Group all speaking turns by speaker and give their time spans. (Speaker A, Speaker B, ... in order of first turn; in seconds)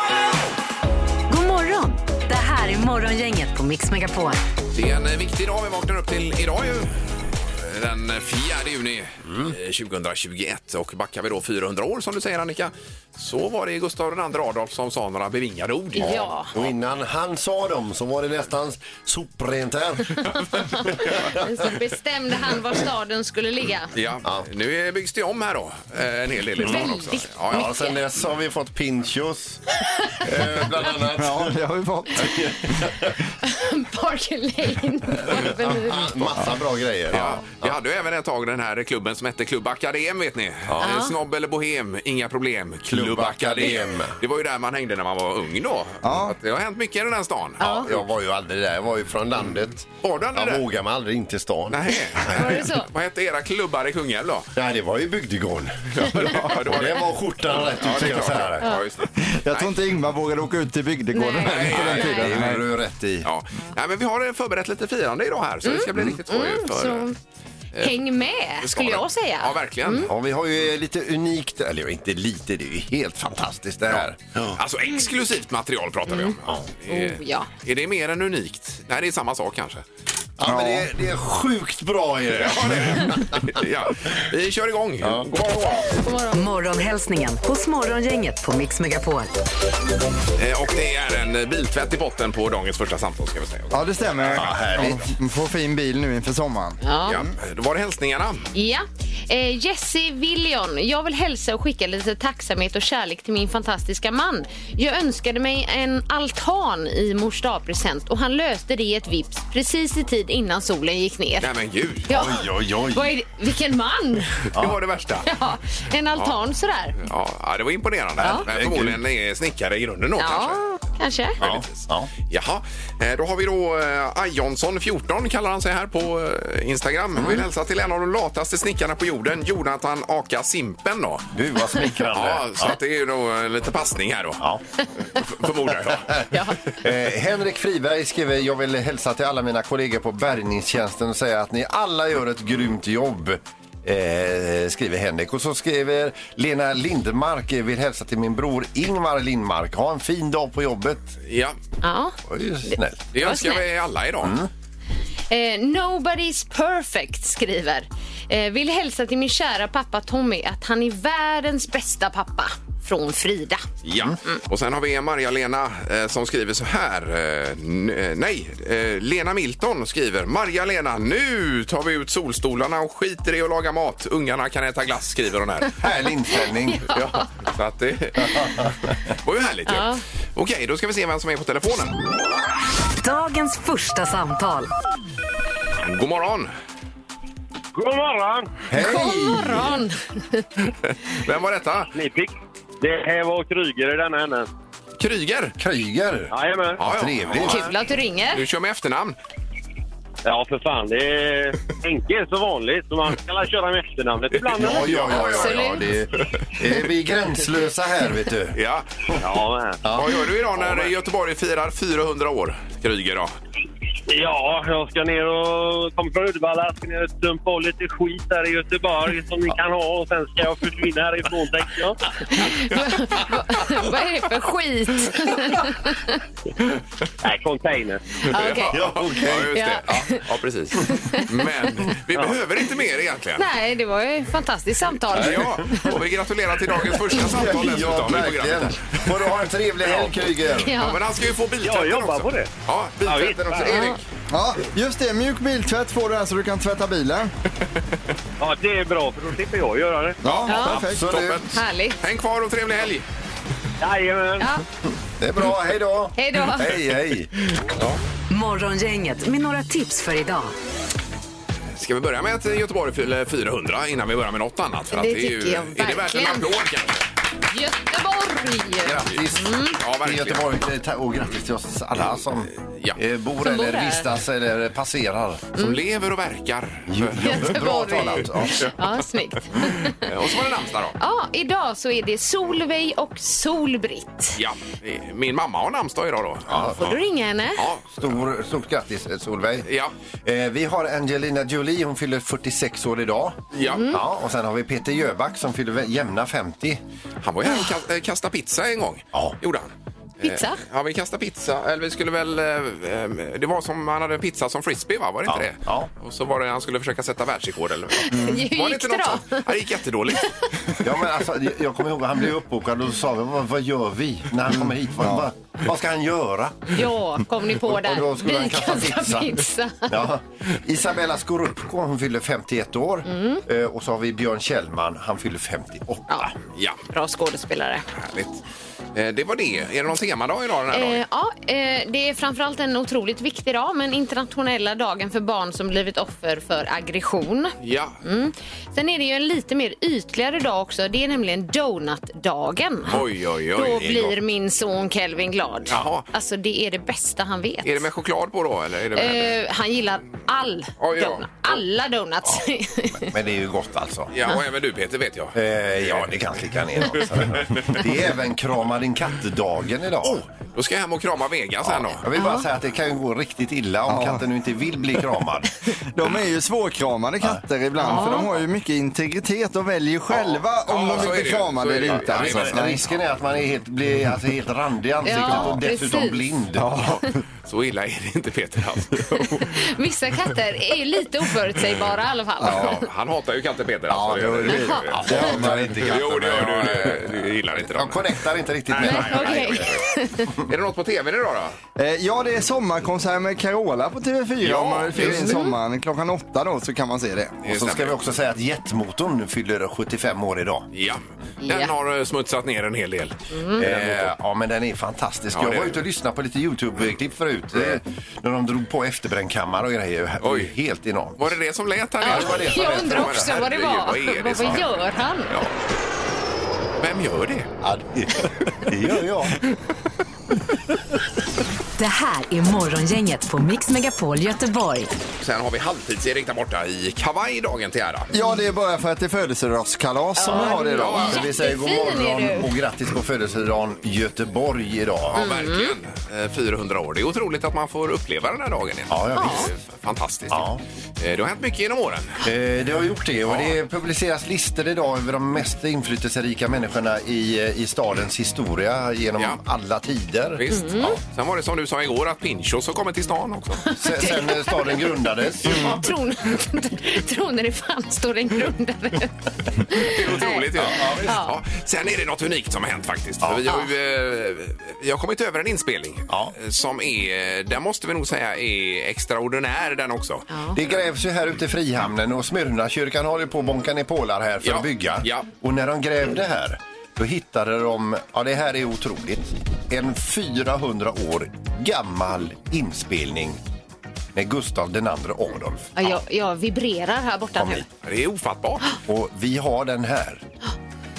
Speaker A: 1.3-4.4, 86.3-89.3, 183.0-184.7, 258.3-260.5, 421.8-424.9
Speaker B: 4.7-16.7, 23.9-27.8, 37.1-47.9, 50.0-50.6, 51.7-54.5, 55.9-59.7, 61.5-62.5, 63.2-67.1, 68.6-70.1, 74.5-79.8, 82.3-85.8, 90.3-94.9, 97.1-98.4, 111.4-112.1, 114.5-115.3, 117.0-120.6, 121.4-131.3, 132.1-134.4, 135.1-136.3, 151.2-151.6, 153.1-154.3, 163.8-175.7, 176.9-178.7, 179.2-181.9, 185.8-186.5, 190.8-191.9, 195.0-195.5, 196.8-197.7, 198.3-199.2, 204.3-206.3, 208.5-208.8, 209.9-213.3, 228.2-233.5, 235.1-239.0, 240.7-244.0, 250.2-251.5, 252.0-253.0, 257.6-257.9, 261.7-267.0, 269.8-270.4, 272.6-273.0, 275.6-277.5, 279.9-281.0, 284.4-286.7, 287.6-288.1, 289.6-289.9, 293.5-293.9, 297.2-299.7, 300.2-310.8, 326.4-326.8, 327.9-328.4, 328.9-331.0, 337.6-338.0, 342.9-344.1, 345.7-346.1, 347.6-349.4, 350.8-351.3, 354.1-356.1, 356.9-357.9, 360.0-362.0, 370.1-372.9, 376.9-379.5, 382.5-388.2, 388.7-389.8, 390.4-391.6, 394.4-395.4, 397.4-398.0, 400.7-404.1, 405.3-405.8, 410.2-410.5, 411.2-414.7, 416.8-417.5, 425.2-428.1, 430.7-431.2, 435.1-440.4, 441.0-442.2, 443.3-443.6, 450.4-453.6, 459.7-470.3, 474.4-475.3, 487.8-488.7
Speaker C: 15.9-16.5, 20.1-23.9, 26.6-27.9, 29.9-30.1, 33.4-36.2, 40.8-41.1, 47.6-47.9, 52.3-52.9, 61.1-62.3, 65.6-67.2, 67.8-70.1, 76.1-76.3, 76.9-77.5, 86.0-86.4, 96.8-97.2, 98.5-111.5, 112.1-114.4, 115.2-117.0, 120.2-121.4, 136.3-136.6, 151.8-152.2, 152.7-153.6, 155.3-163.7, 176.7-177.2, 179.7-180.0, 188.8-190.4, 197.4-198.4, 205.1-205.8, 222.3-226.2, 228.3-228.8, 229.5-230.2, 230.8-231.4, 233.4-235.8, 240.6-241.0, 243.6-244.0, 250.5-250.8, 251.5-252.0, 256.2-256.7, 264.9-266.6, 267.5-269.8, 273.4-274.1, 277.2-280.1, 281.0-284.4, 286.8-287.6, 293.6-294.0, 300.2-300.6, 308.1-309.5, 316.7-319.9, 323.1-323.4, 326.9-327.8, 330.7-343.0, 343.5-347.9, 348.9-353.1, 362.1-362.4, 367.8-368.3, 375.0-376.3, 379.2-382.7, 384.5-384.9, 388.8-390.3, 395.1-395.5, 401.4-401.7, 403.3-403.6, 412.0-415.3, 430.2-432.5, 435.1-435.7, 439.1-439.5, 450.5-451.0, 453.7-454.8, 455.4-460.5, 461.0-461.3, 470.3-470.6, 485.8-487.6
Speaker D: 16.0-20.2, 21.2-21.6, 27.5-29.6, 30.2-31.6, 32.1-33.1, 35.3-37.8, 42.9-44.2, 47.7-52.5, 54.5-58.7, 61.9-63.3, 70.0-74.5, 80.4-83.5, 85.0-85.3, 94.3-95.1, 112.1-113.1, 118.3-119.0, 121.4-122.1, 131.3-132.7, 136.8-151.2, 152.2-153.0, 154.2-154.5, 175.8-176.9, 178.2-178.8, 188.7-189.8, 195.6-197.7, 204.5-208.6, 209.8-210.1, 228.7-229.5, 235.2-235.5, 237.0-240.8, 250.7-251.5, 255.0-257.3, 268.8-275.5, 276.9-278.6, 286.5-287.0, 288.0-289.7, 290.2-296.8, 305.3-305.9, 310.8-316.8, 317.6-326.2, 353.1-354.1, 355.3-360.2, 361.6-365.5, 370.9-371.2, 371.9-376.9, 384.1-389.8, 397.4-400.7, 403.6-411.4, 412.0-413.3, 417.6-419.4, 430.2-435.2, 438.9-439.5, 440.3-440.6, 442.2-450.9, 453.7-455.8, 460.5-461.1, 466.1-466.3, 470.5-483.4, 484.1-485.7, 487.4-487.6, 488.8-490.2
Speaker E: 30.8-32.8, 46.0-46.3, 59.2-62.6, 80.5-80.9, 93.7-96.8, 244.3-247.3, 250.2-251.3, 314.5-315.3, 363.9-364.2, 365.9-372.8, 375.2-375.6, 376.6-377.2, 382.4-382.8, 383.9-386.9, 391.8-397.4, 428.1-431.1
Speaker F: 187.7-188.5, 191.9-194.5, 196.3-196.8, 200.2-205.2, 209.2-209.8, 210.6-210.9, 214.1-222.0, 227.2-228.0, 232.1-232.4, 241.6-243.8, 248.4-250.2, 253.8-254.5